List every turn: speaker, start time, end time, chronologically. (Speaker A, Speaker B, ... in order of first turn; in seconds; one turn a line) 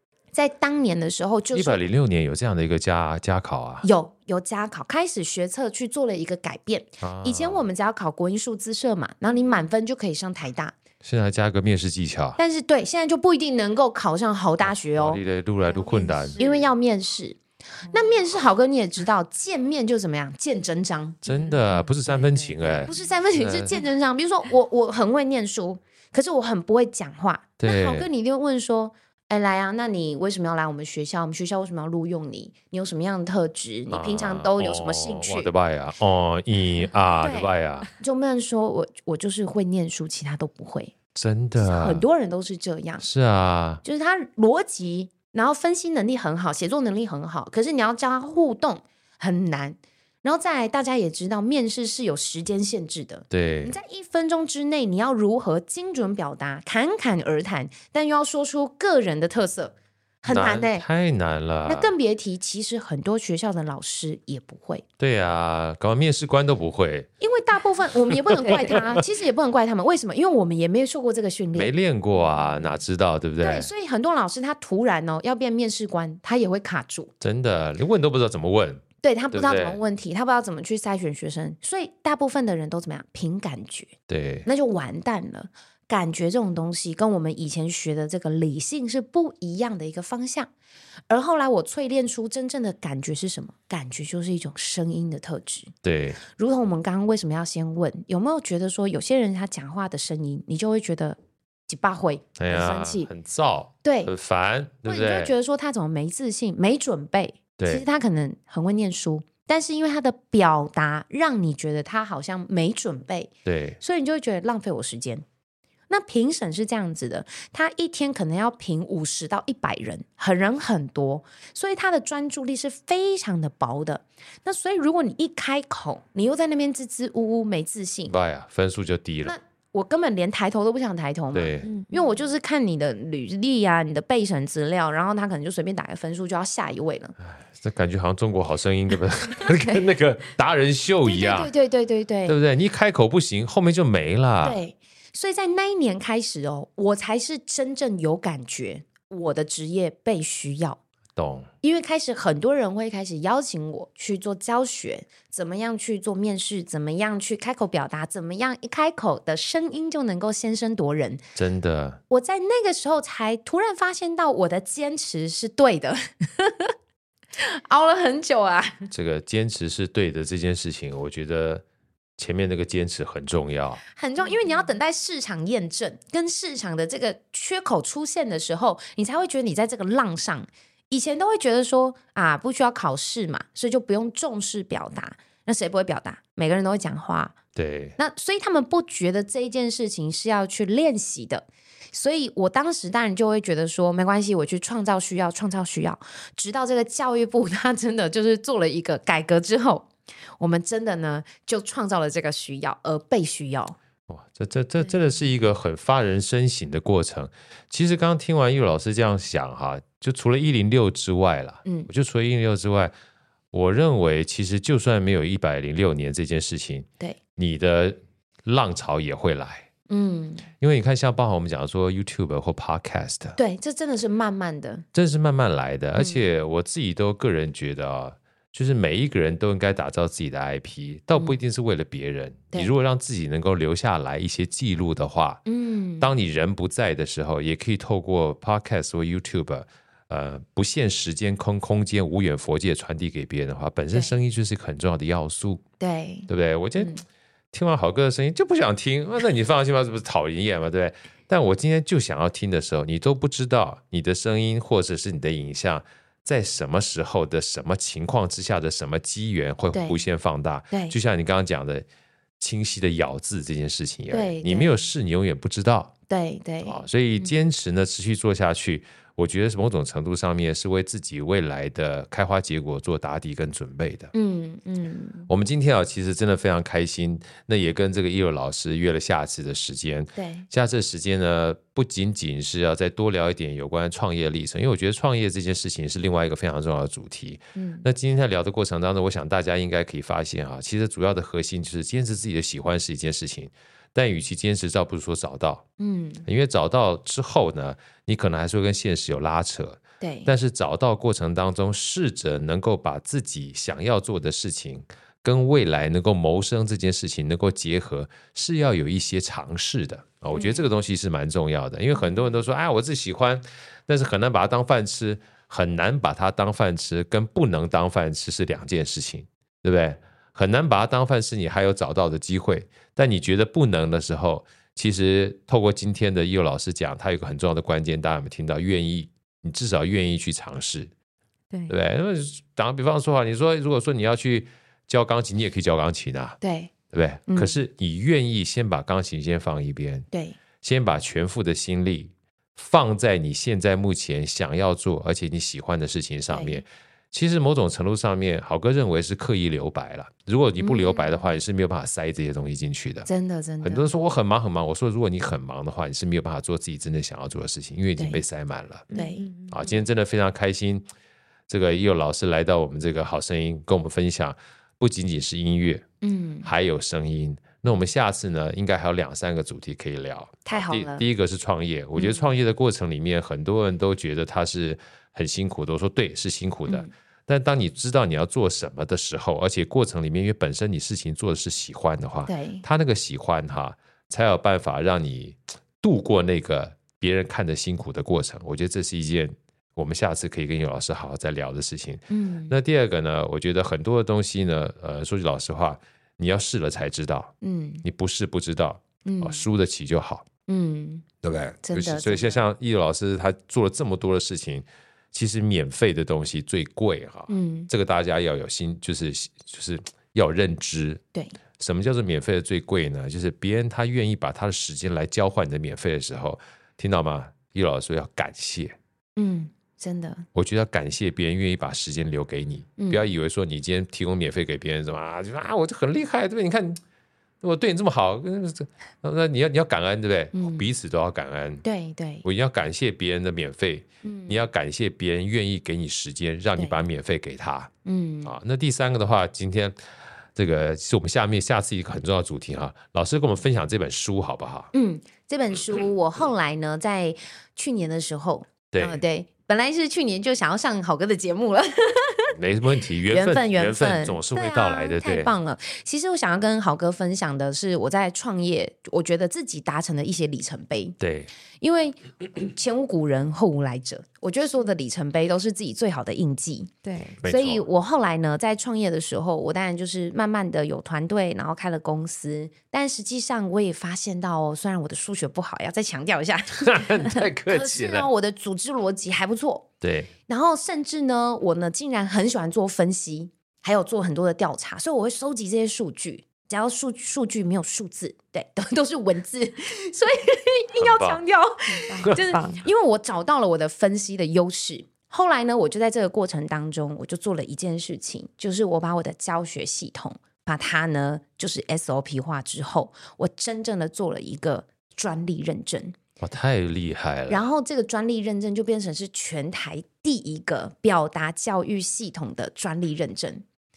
Speaker A: 0.3-1.8
Speaker B: 1.5-3.9
Speaker A: 3.8-10.7
Speaker B: 7.0-7.7
Speaker B: 11.0-12.4
Speaker A: 12.4-15.2
Speaker B: 14.6-16.4
Speaker A: 15.9-21.2
Speaker C: 15.9-16.6
Speaker B: 21.2-23.8
Speaker C: 21.3-22.8
Speaker A: 22.8-35.5
Speaker B: 27.6-28.1
Speaker B: 33.9-37.9
Speaker A: 37.2-40.9
Speaker B: 41.1-42.0
Speaker A: 41.6-43.0
Speaker B: 43.0-43.8
Speaker A: 43.8-60.8
Speaker B: 53.3-53.8
Speaker B: 60.3-61.9
Speaker A: 61.6-64.8
Speaker B: 65.0-67.1
Speaker A: 67.2-71.7
Speaker B: 68.1-69.0
Speaker B: 71.5-73.7
Speaker A: 73.4-77.1
Speaker B: 77.2-79.8
Speaker A: 79.0-83.9
Speaker B: 84.1-84.5
Speaker A: 84.5-90.5
Speaker A: 91.1-95.7
Speaker B: 95.8-96.2
Speaker A: 96.3-101.2
Speaker A: 101.7-103.1
Speaker B: 102.4-105.3
Speaker A: 103.8-104.1
Speaker A: 104.8-115.2
Speaker B: 107.6-107.8
Speaker B: 113.4-113.8
Speaker A: 115.9-128.1
Speaker B: 128.1-129.3
Speaker A: 129.3-137.1
Speaker B: 131.3-131.7
Speaker B: 137.3-141.5
Speaker A: 141.1-142.4
Speaker B: 142.3-144.6
Speaker A: 144.4-150.8
Speaker B: 151.2-151.5
Speaker A: 151.6-161.2
Speaker B: 161.3-162.0
Speaker A: 162.1-166.7
Speaker A: 167.4-168.9
Speaker B: 168.9-171.6
Speaker B: 172.2-173.8
Speaker A: 173.9-187.4
Speaker B: 187.6-188.0
Speaker A: 188.0-203.8
Speaker B: 204.1-212.9
Speaker B: 213.5-219.7
Speaker A: 219.9-220.4
Speaker B: 220.6-223.4
Speaker A: 223.4-224.8
Speaker B: 224.9-235.4
Speaker A: 235.4-236.1
Speaker B: 236.0-245.6
Speaker A: 245.8-247.0
Speaker B: 246.3-247.0
Speaker B: 247.5-261.8
Speaker A: 259.7-260.0
Speaker A: 260.7-261.0
Speaker B: 262.4-265.9
Speaker A: 264.1-264.8
Speaker A: 266.1-267.4
Speaker B: 266.6-274.1
Speaker A: 274.1-275.3
Speaker B: 275.3-295.7
Speaker A: 280.1-280.4
Speaker A: 287.6-287.9
Speaker A: 295.8-296.2
Speaker B: 296.3-330.9
Speaker A: 300.0-300.3
Speaker A: 310.3-310.6
Speaker B: 331.7-336.4
Speaker A: 336.4-336.7
Speaker B: 336.9-340.1
Speaker A: 337.3-337.6
Speaker A: 340.1-340.4
Speaker B: 340.6-353.1
Speaker A: 346.3-346.6
Speaker A: 350.6-351.2
Speaker A: 353.1-353.9
Speaker B: 353.6-358.9
Speaker A: 358.0-358.2
Speaker C: 358.9-359.7
Speaker A: 358.9-359.8
Speaker B: 359.5-360.8
Speaker B: 361.5-365.8
Speaker A: 366.0-366.5
Speaker B: 366.4-400.2
Speaker A: 370.4-371.1
Speaker A: 371.9-372.3
Speaker A: 382.3-382.6
Speaker A: 392.1-392.6
Speaker A: 397.4-397.8
Speaker A: 399.1-399.4
Speaker A: 400.5-401.1
Speaker B: 401.2-411.0
Speaker A: 401.6-402.4
Speaker A: 407.3-407.7
Speaker B: 411.6-418.8
Speaker A: 419.1-420.3
Speaker B: 420.3-426.8
Speaker A: 422.8-423.1
Speaker B: 427.4-431.6
Speaker A: 430.3-430.6
Speaker A: 431.6-432.2
Speaker B: 432.2-437.7
Speaker A: 434.0-434.5
Speaker A: 437.8-438.3
Speaker B: 438.2-439.7
Speaker B: 440.4-444.7
Speaker A: 444.7-452.3
Speaker B: 448.7-449.0
Speaker B: 452.3-455.3
Speaker A: 453.1-461.0
Speaker B: 461.0-461.3
Speaker A: 461.6-466.7
Speaker C: 466.8-467.2
Speaker B: 467.2-467.6
Speaker A: 467.2-479.7
Speaker B: 476.6-478.1
Speaker B: 479.8-480.1
Speaker A: 480.3-505.9
Speaker B: 490.8-491.2
Speaker C: 491.7-492.6
Speaker B: 506.2-507.4
Speaker A: 507.3-513.4